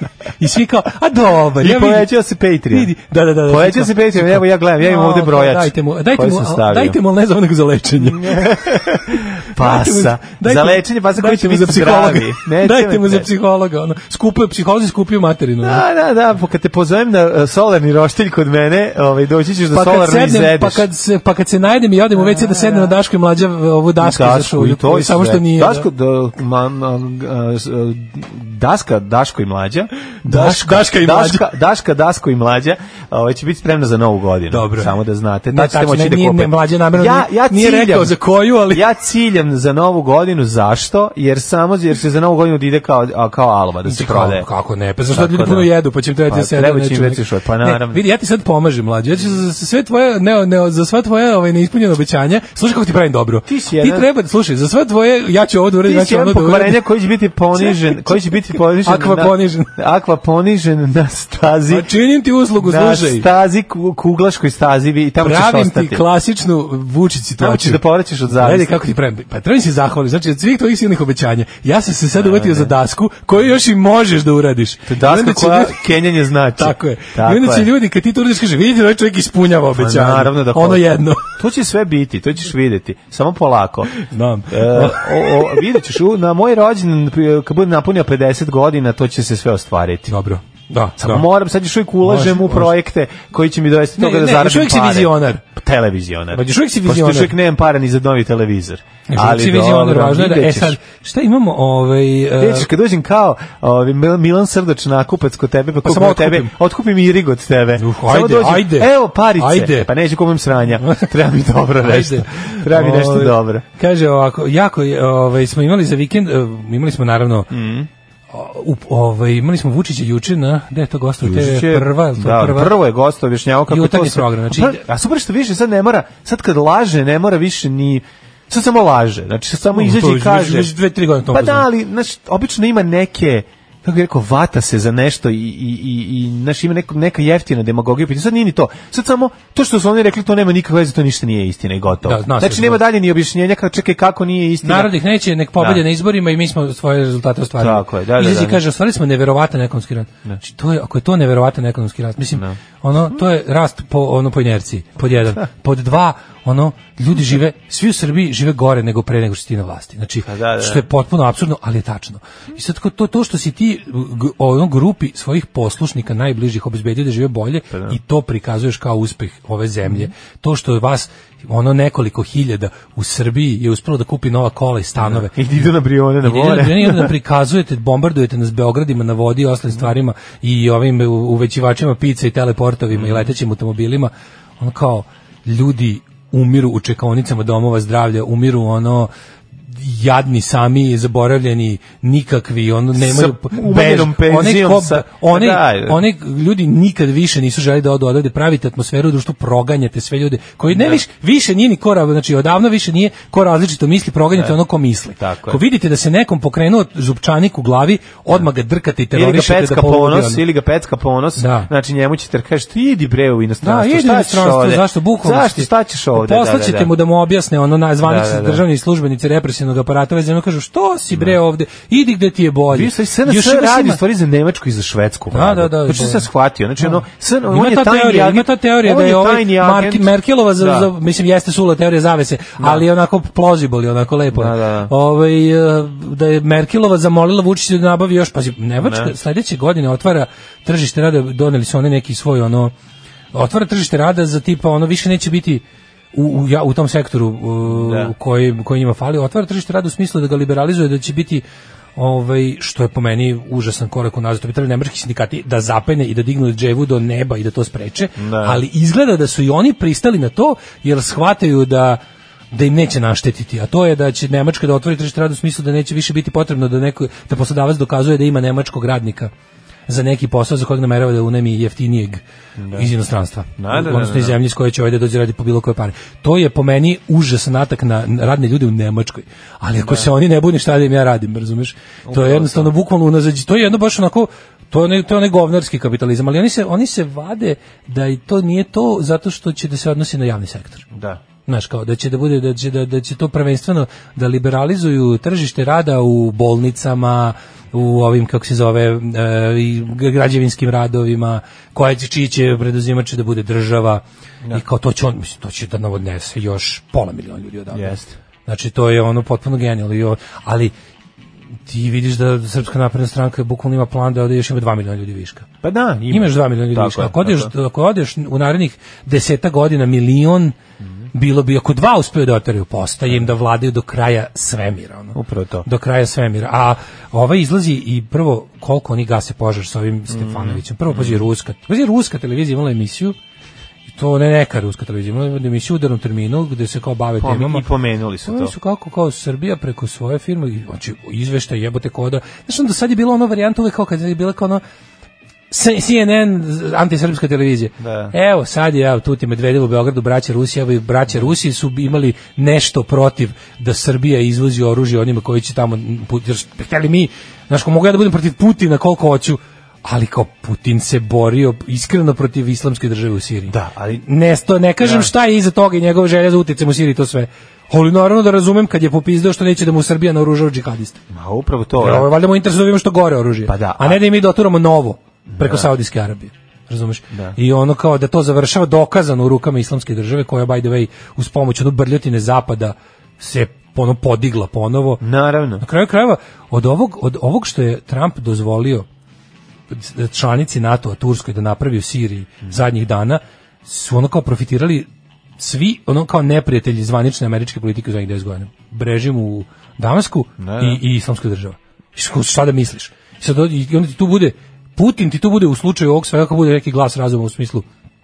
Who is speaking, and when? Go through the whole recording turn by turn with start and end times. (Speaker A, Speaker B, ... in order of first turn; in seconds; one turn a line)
Speaker A: 0.4-2.1
Speaker B: 1.6-2.9
Speaker A: 2.7-15.8
Speaker B: 3.5-7.0
Speaker B: 8.0-13.3
Speaker B: 15.6-20.9
Speaker A: 19.7-25.9
Speaker B: 22.2-23.0
Speaker B: 24.0-44.5
Speaker A: 30.2-31.5
Speaker A: 34.5-34.9
Speaker A: 35.5-38.9
Speaker A: 43.9-56.8
Speaker B: 45.1-45.7
Speaker B: 46.3-48.0
Speaker B: 53.5-54.1
Speaker B: 55.8-61.9
Speaker A: 57.5-59.7
Speaker A: 61.7-63.2
Speaker B: 62.6-66.0
Speaker A: 65.2-75.9
Speaker B: 67.4-68.8
Speaker B: 72.2-72.7
Speaker B: 74.9-77.7
Speaker A: 76.6-81.4
Speaker B: 79.7-83.9
Speaker A: 84.0-85.7
Speaker B: 84.5-90.1
Speaker A: 90.1-91.3
Speaker B: 91.0-100.8
Speaker A: 92.0-92.7
Speaker A: 94.0-95.4
Speaker A: 96.3-97.3
Speaker A: 99.1-102.7
Speaker B: 102.4-113.7
Speaker A: 105.8-106.5
Speaker A: 107.8-109.9
Speaker A: 110.8-111.1
Speaker A: 111.8-117.5
Speaker B: 117.5-117.9
Speaker A: 118.3-122.8
Speaker B: 121.2-130.7
Speaker A: 123.7-124.8
Speaker A: 129.7-131.7
Speaker B: 131.3-144.9
Speaker A: 142.1-142.8
Speaker A: 144.6-175.4
Speaker B: 145.6-145.8
Speaker B: 147.6-148.6
Speaker B: 152.3-152.6
Speaker B: 160.3-160.8
Speaker B: 167.7-168.0
Speaker B: 175.0-177.1
Speaker A: 176.2-189.1
Speaker B: 182.9-183.3
Speaker A: 189.7-210.4
Speaker B: 193.0-196.0
Speaker B: 200.7-201.0
Speaker B: 205.2-205.6
Speaker B: 209.1-216.9
Speaker A: 211.4-211.7
Speaker A: 213.6-224.0
Speaker B: 218.0-218.6
Speaker B: 222.7-230.9
Speaker A: 225.3-226.3
Speaker A: 226.8-242.7
Speaker B: 232.6-232.9
Speaker B: 234.3-234.9
Speaker B: 238.8-239.1
Speaker A: 243.3-251.4
Speaker B: 247.7-248.1
Speaker A: 252.0-262.0
Speaker B: 258.2-258.6
Speaker A: 262.5-269.3
Speaker A: 269.9-272.2
Speaker B: 272.6-272.9
Speaker A: 272.7-290.9
Speaker B: 273.6-274.4
Speaker B: 279.8-280.1
Speaker B: 282.1-282.7
Speaker B: 290.9-291.2
Speaker A: 291.5-310.7
Speaker B: 307.7-308.1
Speaker A: 311.7-315.5
Speaker B: 315.6-317.5
Speaker A: 316.1-320.6
Speaker A: 321.1-333.2
Speaker B: 325.1-325.7
Speaker B: 330.1-331.2
Speaker A: 333.9-337.6
Speaker B: 337.2-338.5
Speaker A: 338.3-344.6
Speaker A: 345.5-371.0
Speaker B: 347.8-348.1
Speaker B: 363.5-364.0
Speaker B: 364.8-365.1
Speaker B: 371.1-372.1
Speaker A: 371.8-385.0
Speaker B: 373.5-374.0
Speaker B: 375.3-375.7
Speaker B: 377.1-377.4
Speaker B: 385.0-385.6
Speaker A: 385.6-388.9
Speaker A: 389.7-394.9
Speaker A: 395.4-407.7
Speaker B: 400.4-400.8